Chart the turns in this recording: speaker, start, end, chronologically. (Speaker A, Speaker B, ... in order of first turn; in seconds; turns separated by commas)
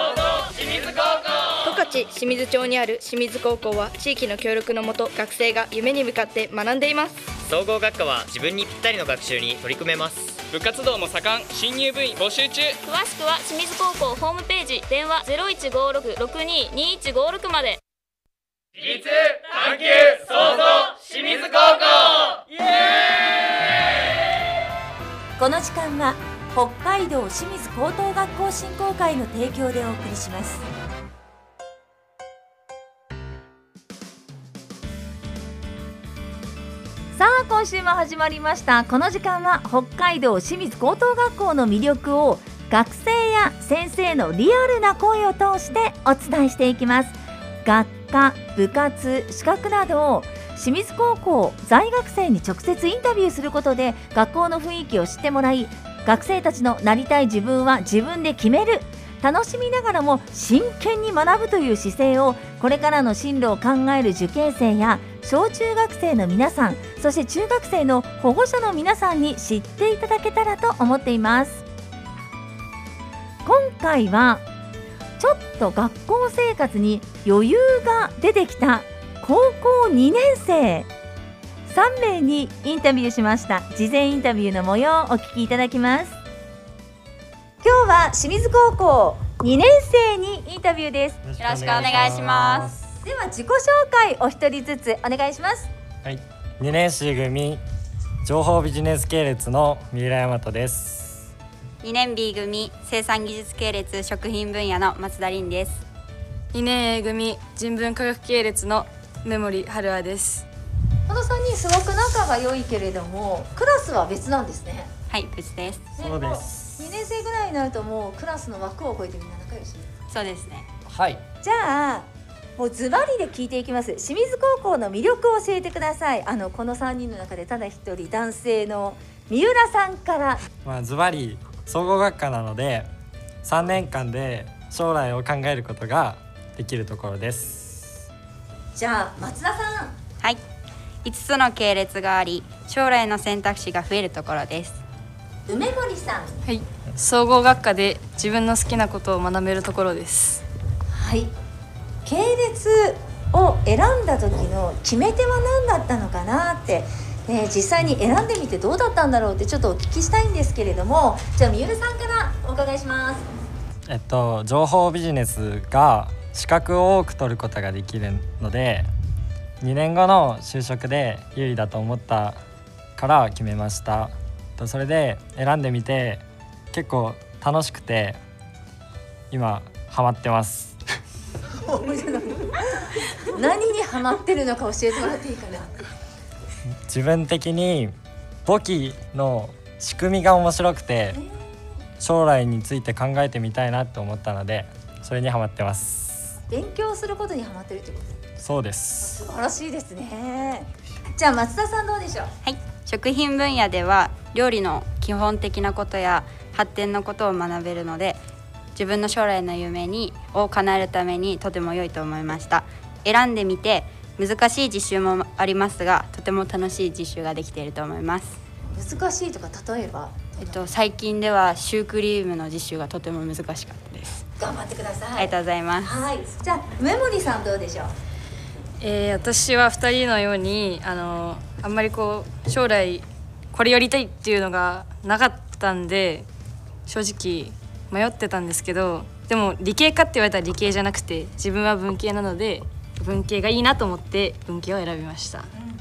Speaker A: 1.6-7.3, Speaker B: 7.4-10.4, Speaker C: 10.5-12.8, Speaker D: 12.8-17.8, Speaker E: 25.4-30.6, Speaker E: 37.1-71.6, Speaker E: 73.4-74.4, Speaker E: 75.2-80.9, Speaker E: 81.7-86.2, Speaker E: 87.6-91.2, Speaker F: 91.2-92.8, Speaker G: 91.4-92.7, Speaker E: 93.0-95.7, Speaker F: 96.0-97.6, Speaker F: 98.2-101.2, Speaker G: 101.8-105.8, Speaker H: 106.5-110.4, Speaker E: 111.1-114.9, Speaker G: 115.1-115.8, Speaker E: 116.0-119.9, Speaker F: 116.0-116.7, Speaker G: 120.1-120.7, Speaker F: 120.9-121.2, Speaker E: 121.4-130.4, Speaker F: 130.6-132.9, Speaker F: 133.4-138.0, Speaker E: 138.7-139.9, Speaker G: 141.0-144.8, Speaker E: 145.5-146.4, Speaker H: 146.5-150.4, Speaker E: 150.9-151.3, Speaker E: 152.0-163.2, Speaker F: 163.9-168.9, Speaker F: 169.6-172.4, Speaker F: 173.0-178.2, Speaker F: 179.3-180.8, Speaker E: 181.6-182.6, Speaker E: 183.1-185.8, Speaker F: 186.9-187.9, Speaker F: 188.4-191.2, Speaker E: 191.1-191.4, Speaker F: 192.0-196.3, Speaker E: 196.5-198.2, Speaker F: 198.4-199.2, Speaker E: 199.0-202.3, Speaker G: 202.4-208.2, Speaker G: 208.7-218.4, Speaker E: 218.7-220.6, Speaker G: 220.4-224.2, Speaker E: 224.4-227.9, Speaker G: 225.2-225.9, Speaker H: 228.8-236.2, Speaker H: 236.9-245.5